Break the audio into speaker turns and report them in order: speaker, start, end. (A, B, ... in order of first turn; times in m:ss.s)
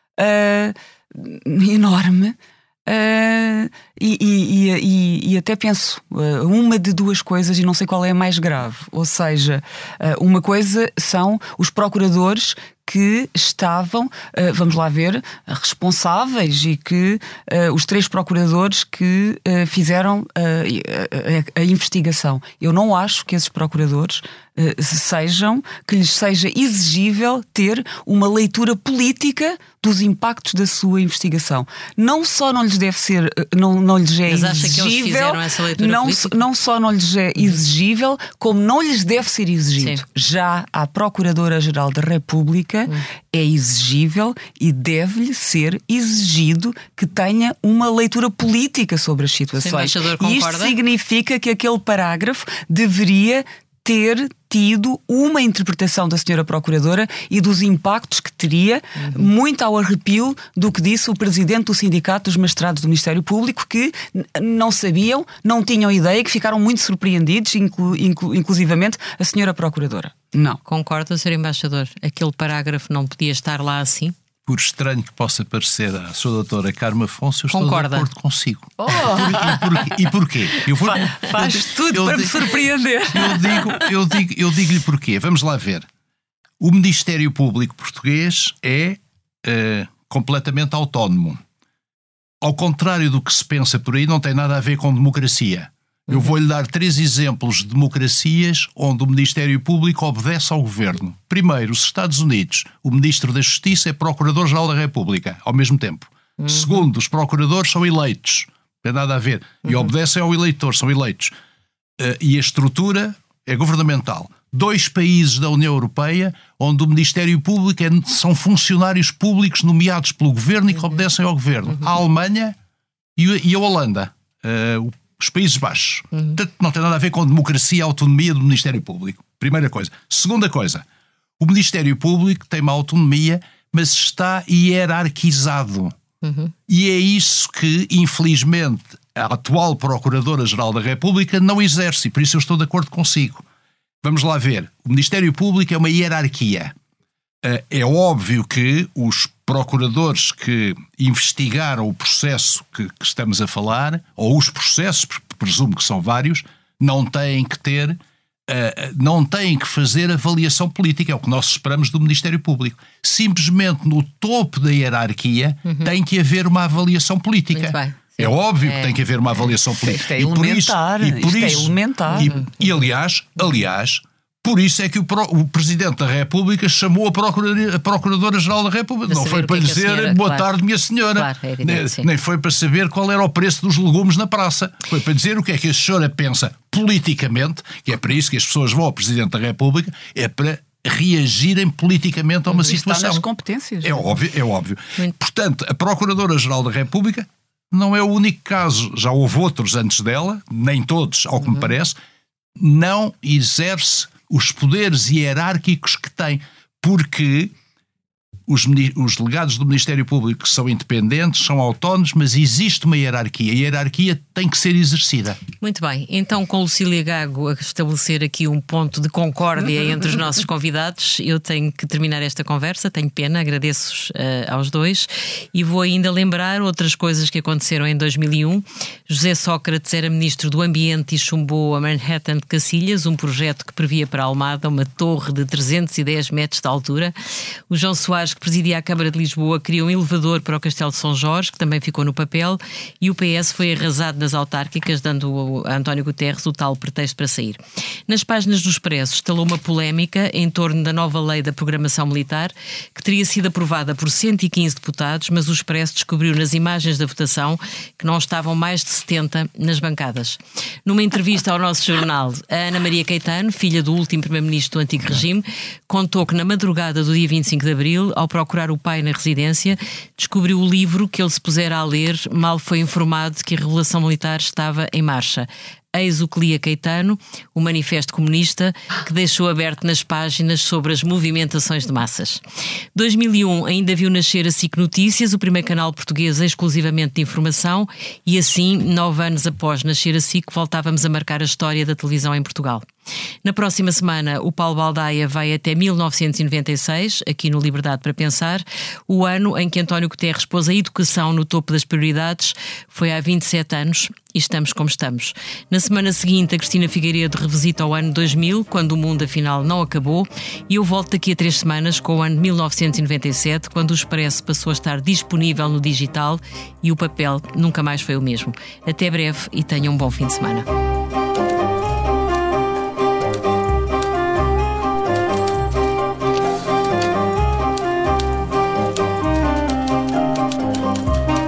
0:00.2-1:10.6 A
0:34.3-0:36.4 B
0:49.6-0:50.8 B
0:59.0-0:59.3 B
1:10.7-1:14.1 B
1:14.4-1:22.6 C
1:17.5-1:18.1 B
1:18.8-1:19.7 A
1:20.8-1:23.8 A
1:23.1-1:25.9 C
1:26.6-1:31.4 C
1:32.4-1:51.4 C
1:46.4-1:46.8 B
1:49.6-1:49.9 B
1:52.0-2:02.6 C
2:03.2-2:10.9 C
2:06.1-2:06.4 B
2:11.4-2:16.0 C
2:16.2-2:16.5 B
2:16.7-2:23.4 C
2:24.0-2:26.7 C
2:27.4-3:13.2 C
2:45.6-2:45.9 B
2:47.5-2:49.0 B
2:49.8-2:52.3 A
2:59.1-3:00.5 B
3:01.1-3:02.1 B
3:12.6-3:14.1 A
3:13.8-3:22.0 C
3:22.6-3:27.5 C
3:28.5-3:35.4 C
3:35.6-3:57.1 B
3:57.7-4:42.4 B
4:43.0-4:52.9 B
4:53.4-5:20.7 B